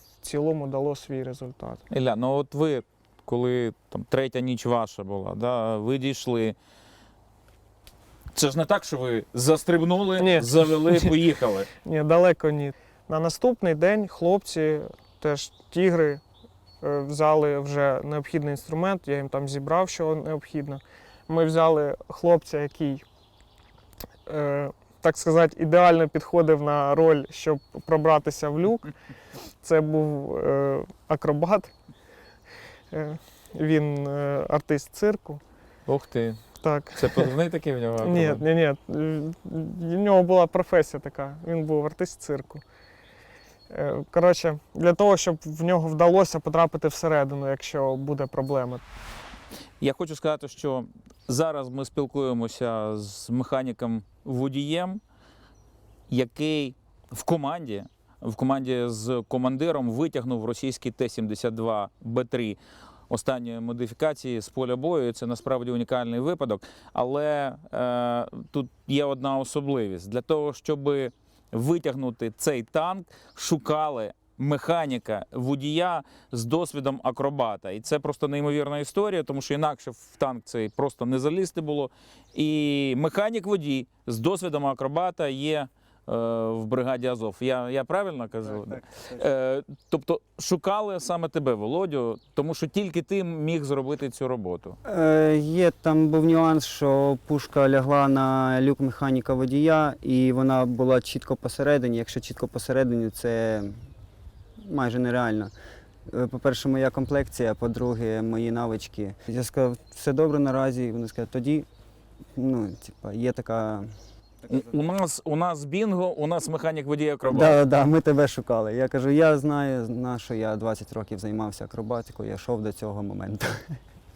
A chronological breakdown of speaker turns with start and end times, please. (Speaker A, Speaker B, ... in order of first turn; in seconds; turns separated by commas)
Speaker A: 0.2-1.8, Speaker B: 1.9-6.6, Speaker B: 8.3-11.7, Speaker A: 10.2-11.2, Speaker A: 11.8-16.2, Speaker A: 16.8-23.0, Speaker A: 24.3-28.9, Speaker A: 29.6-31.7, Speaker A: 32.9-35.4, Speaker B: 35.9-36.4, Speaker A: 36.6-37.3, Speaker B: 37.0-38.4, Speaker A: 38.0-42.6, Speaker A: 43.7-48.8, Speaker B: 49.8-55.0, Speaker B: 56.1-62.6, Speaker B: 63.1-94.8, Speaker C: 94.8-103.8, Speaker C: 104.6-105.5, Speaker C: 106.1-111.7, Speaker C: 112.4-113.9, Speaker B: 114.5-117.6, Speaker C: 117.3-123.8